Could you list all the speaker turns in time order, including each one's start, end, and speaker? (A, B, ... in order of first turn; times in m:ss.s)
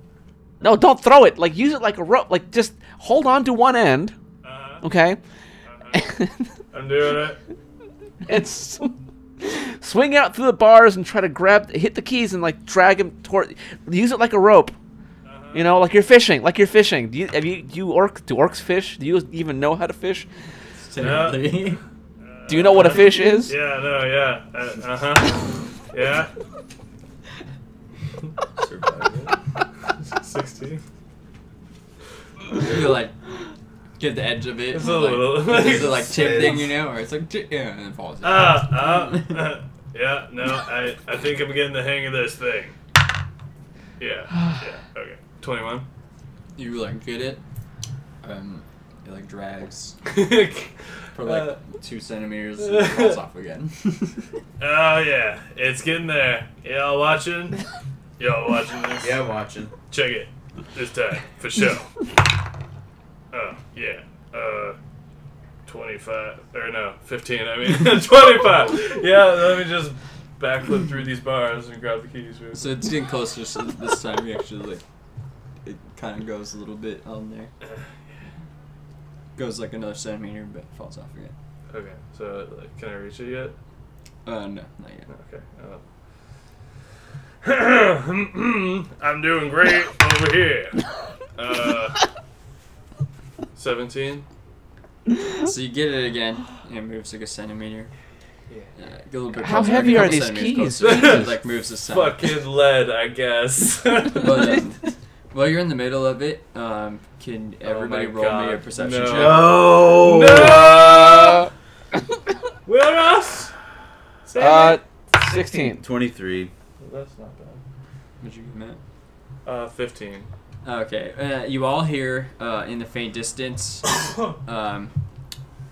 0:00.6-0:04.1 A
0:04.4-0:04.8 B
0:04.8-0:05.2 A
0:05.6-0:06.1 B
0:05.9-0:06.5 A
0:06.7-0:07.4 B
0:08.2-0:14.8 A
0:15.2-0:15.7 B
0:15.5-0:20.3 A
0:20.8-0:21.8 C
0:21.0-0:21.6 B
0:22.2-0:26.3 B
0:22.5-0:23.5 A
0:28.6-0:29.4 D
0:30.1-0:30.8 B
0:32.5-0:33.2 C
0:34.0-0:39.5 C
0:34.7-0:36.4 B
0:35.5-0:36.7 D
0:38.2-0:42.8 B
0:44.0-0:45.9 B
0:46.6-0:47.4 C
0:48.2-0:50.0 C
0:50.0-0:51.6 B
0:51.1-0:54.3 C
0:52.6-0:53.2 B
0:54.6-0:57.6 B
0:58.2-0:59.2 B
0:59.0-0:59.7 D
0:59.9-1:02.0 B
1:03.3-1:04.8 B
1:05.6-1:12.7 B
1:12.5-1:14.8 C
1:15.6-1:17.5 C
1:17.6-1:17.9 B
1:19.4-1:21.3 C
1:21.7-1:23.6 B
1:24.2-1:25.1 C
1:25.1-1:25.8 B
1:27.4-1:32.0 B
1:33.5-1:34.3 B
1:35.4-1:37.9 C
1:38.5-1:38.7 B
1:38.8-1:42.3 C
1:39.3-1:41.3 A
1:40.8-1:44.6 B
1:44.1-1:49.6 C
1:47.6-1:51.5 B
1:49.1-1:50.7 D
1:52.6-1:53.5 B
1:54.2-1:54.8 B
1:54.4-1:55.8 A
1:55.8-1:56.5 D
1:56.8-1:57.6 B
1:58.2-1:58.8 C
1:59.4-2:00.3 B
2:00.6-2:04.9 C